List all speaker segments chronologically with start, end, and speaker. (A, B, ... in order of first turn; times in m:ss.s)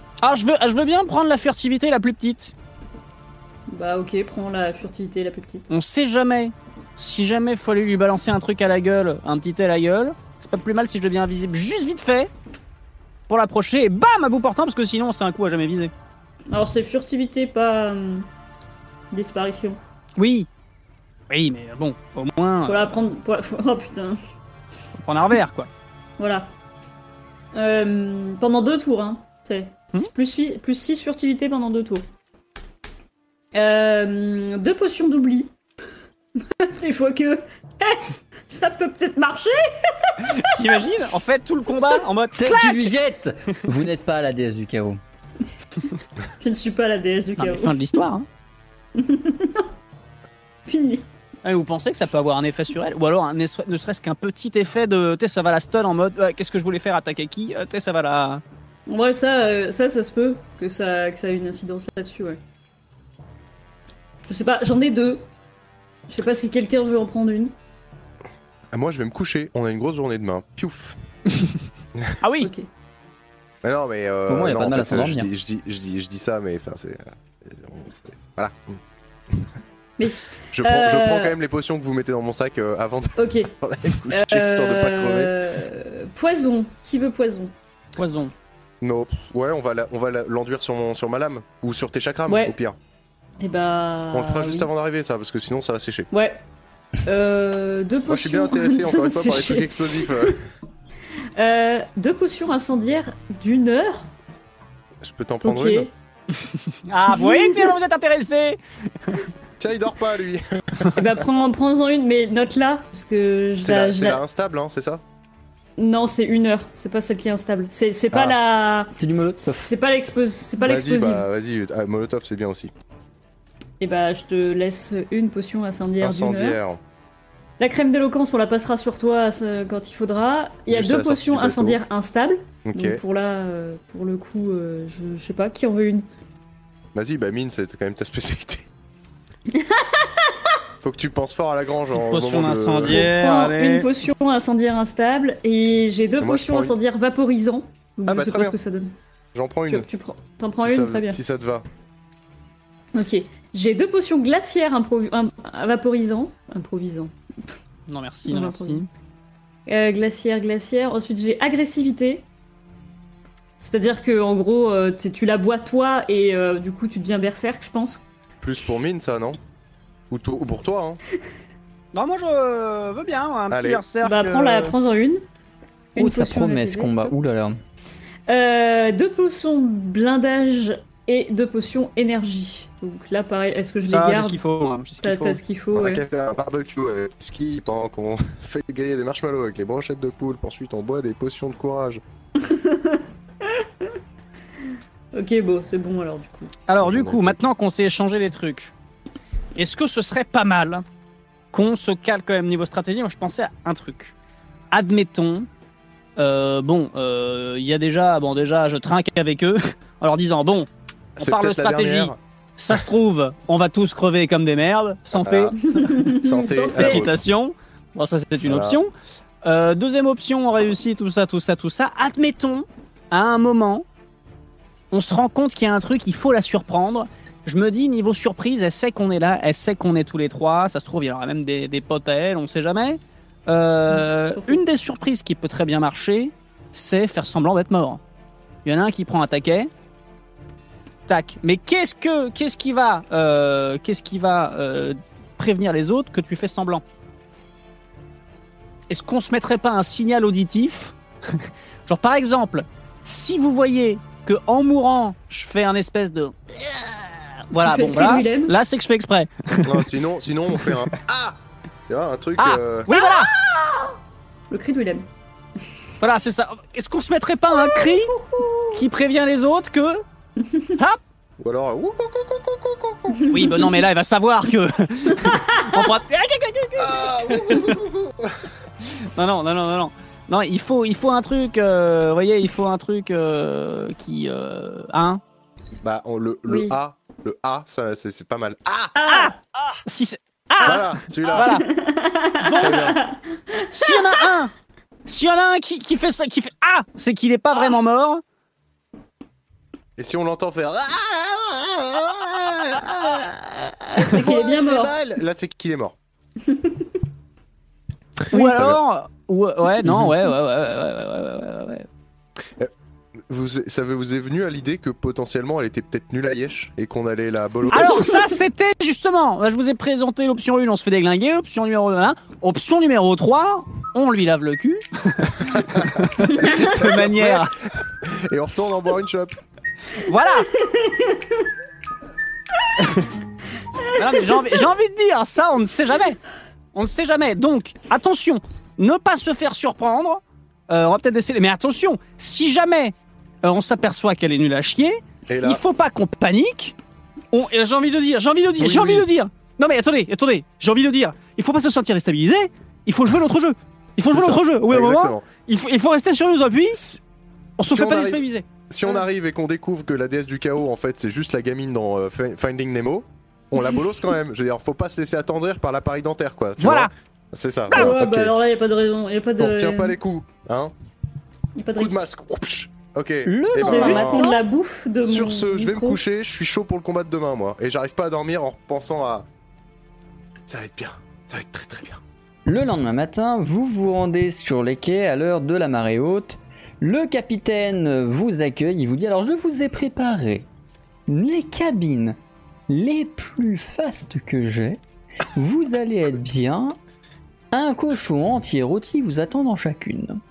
0:00.2-0:02.5 A
0:03.7-0:05.7 B
0:05.7-0:12.3 A
0:13.3-0:15.9 A
0:16.5-0:18.3 B
0:19.1-0:19.8 B
0:20.2-0:20.5 A
0:21.3-0:23.0 A
0:22.6-0:24.2 B
0:25.0-0:25.7 A
0:26.2-0:26.5 B
0:27.5-0:32.1 B
0:33.5-0:35.5 B
0:36.4-0:40.8 B
0:40.4-0:42.9 A
0:42.3-0:45.0 C
0:46.4-0:47.8 B
0:47.4-0:48.3 A
0:49.0-0:49.7 B
0:50.7-0:51.1 B
0:51.4-0:58.4 A
0:58.9-1:02.4 B
1:04.3-1:05.3 B
1:06.1-1:07.5 B
1:08.7-1:11.0 D
1:12.2-1:12.5 A
1:12.4-1:12.7 B
1:13.6-1:18.8 D
1:14.3-1:15.3 C
1:20.0-1:21.4 B
1:20.5-1:25.4 D
1:23.2-1:23.5 B
1:24.1-1:27.5 B
1:28.0-1:28.3 A
1:28.8-1:32.8 D
1:32.3-1:32.6 B
1:33.4-1:34.7 B
1:34.1-1:36.1 D
1:36.1-1:36.4 B
1:37.0-1:40.4 B
1:38.1-1:40.4 D
1:41.4-1:44.1 B
1:45.0-1:45.9 D
1:45.4-1:45.9 B
1:46.4-1:49.3 A
1:47.1-1:47.7 B
1:49.6-1:51.2 D
1:50.9-1:54.2 B
1:53.6-1:55.0 D
1:55.8-2:01.2 B
1:58.1-1:58.4 D
1:59.0-1:59.7 C
2:00.6-2:02.7 D
2:03.8-2:06.6 B
2:06.0-2:06.8 D
2:07.6-2:16.1 B
2:10.7-2:11.8 D
2:12.6-2:13.0 D
2:16.9-2:18.7 D
2:19.6-2:20.3 B
2:20.8-2:23.1 D
2:21.9-2:23.9 A
2:22.9-2:28.9 B
2:26.2-2:26.8 D
2:28.1-2:28.6 D
2:29.3-2:29.9 D
2:29.7-2:31.2 B
2:30.6-2:31.6 D
2:32.9-2:37.1 B
2:37.9-2:38.9 A
2:38.3-2:38.9 B
2:39.7-2:42.2 B
2:43.6-2:48.0 B
2:48.4-2:49.4 D
2:50.1-2:51.0 D
2:51.9-2:54.8 A
2:53.5-2:53.8 D
2:54.0-2:55.2 B
2:56.0-2:57.1 B
2:56.0-2:57.6 C
2:58.3-3:04.4 B
3:03.9-3:05.4 A
3:05.0-3:06.0 B
3:05.7-3:12.0 D
3:12.4-3:14.0 B
3:15.1-3:16.5 B
3:16.7-3:18.7 A
3:16.8-3:17.4 D
3:19.6-3:20.8 A
3:21.5-3:24.1 A
3:24.7-3:25.5 A
3:26.2-3:35.5 A
3:31.2-3:32.2 D
3:35.1-3:35.6 D
3:35.6-3:37.1 B
3:36.1-3:37.2 D
3:36.7-3:38.9 A
3:38.4-3:38.8 D
3:39.4-3:43.8 A
3:44.9-3:58.0 A
3:58.6-3:59.7 A
4:01.1-4:06.8 A
4:08.9-4:19.9 A
4:17.6-4:18.5 B
4:19.6-4:21.4 D
4:20.6-4:20.9 A
4:21.9-4:22.9 D
4:22.4-4:23.3 A
4:22.9-4:24.0 B
4:24.5-4:25.1 B
4:26.0-4:28.1 A
4:27.5-4:28.8 B
4:28.7-4:30.0 A
4:31.4-4:33.4 D
4:33.1-4:33.8 B
4:33.3-4:37.8 A
4:35.2-4:35.9 B
4:36.8-4:38.5 D
4:39.1-4:45.2 A
4:45.8-4:48.9 D
4:46.5-4:46.8 B
4:49.0-4:49.8 B
4:49.0-4:49.3 A
4:49.9-4:51.7 A
4:50.6-4:51.5 D
4:51.3-4:54.1 B
4:52.4-4:53.0 A
4:52.6-4:53.0 D
4:53.7-4:54.5 A
4:55.1-4:58.2 A
5:00.0-5:06.0 D
5:04.0-5:05.0 B
5:06.5-5:06.8 B
5:08.3-5:08.8 D
5:08.3-5:11.9 A
5:13.3-5:18.1 D
5:17.7-5:27.6 A
5:25.4-5:27.5 D
5:28.0-5:29.3 D
5:30.0-5:30.5 A
5:30.6-5:31.3 B
5:34.0-5:36.2 A
5:36.7-5:46.8 A
5:45.3-5:45.6 D
5:47.3-5:56.8 A
5:48.6-5:49.1 D
5:54.1-5:55.3 D
5:56.7-5:57.0 D
5:57.6-5:58.4 A
5:57.7-6:08.4 D
6:06.6-6:06.9 A
6:07.7-6:10.0 B
6:09.4-6:10.7 D
6:11.6-6:12.0 B
6:11.8-6:14.3 D
6:13.2-6:14.4 C
6:13.6-6:16.0 B
6:15.0-6:19.3 D
6:20.5-6:22.0 D
6:22.5-6:30.5 C
6:31.1-6:32.2 C
6:32.7-6:34.8 C
6:35.4-6:36.8 C
6:37.5-6:40.2 C